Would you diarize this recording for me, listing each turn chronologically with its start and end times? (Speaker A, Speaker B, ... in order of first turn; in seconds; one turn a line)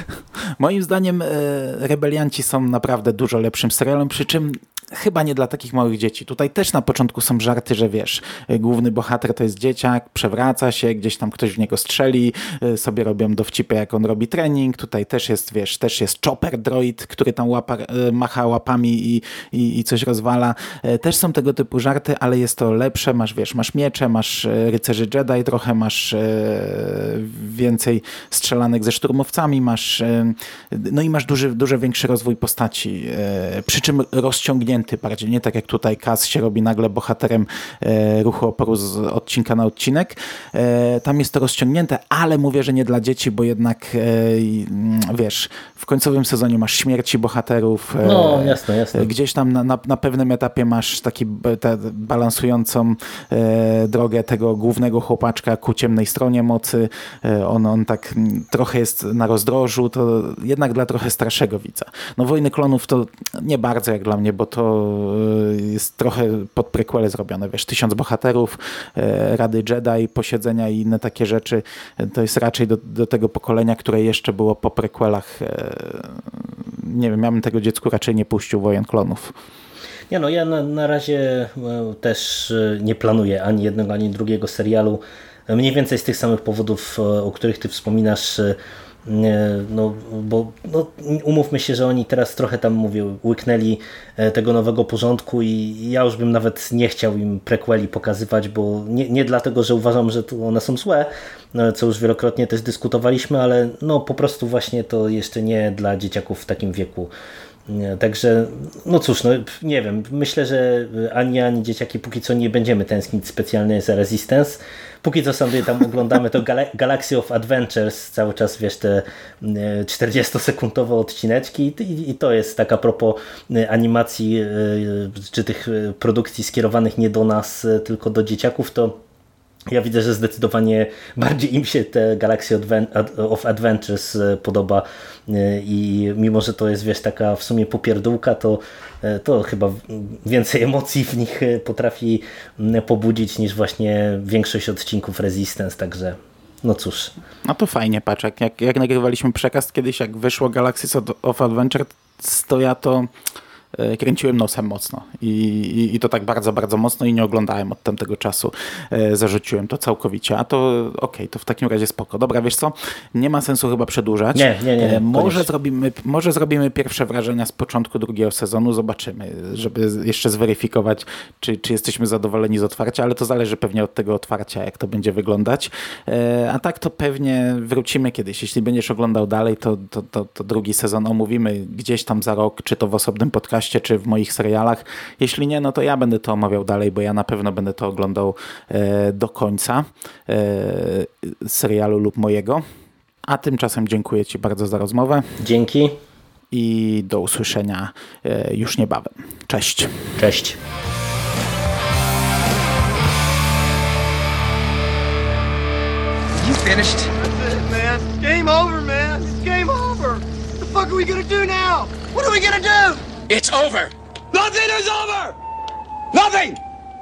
Speaker A: 0.6-79.3
Speaker B: 48.0-49.1
Speaker B: 80.1-107.1
Speaker B: 107.7-129.0
Speaker B: 129.7-147.1
Speaker A: 147.4-153.1
Speaker A: 153.7-192.6
Speaker B: 164.3-165.5
Speaker A: 193.3-195.3
Speaker B: 195.4-196.0
Speaker A: 196.5-200.2
Speaker B: 200.2-200.6
Speaker C: 206.4-215.4
Speaker C: 216.1-216.6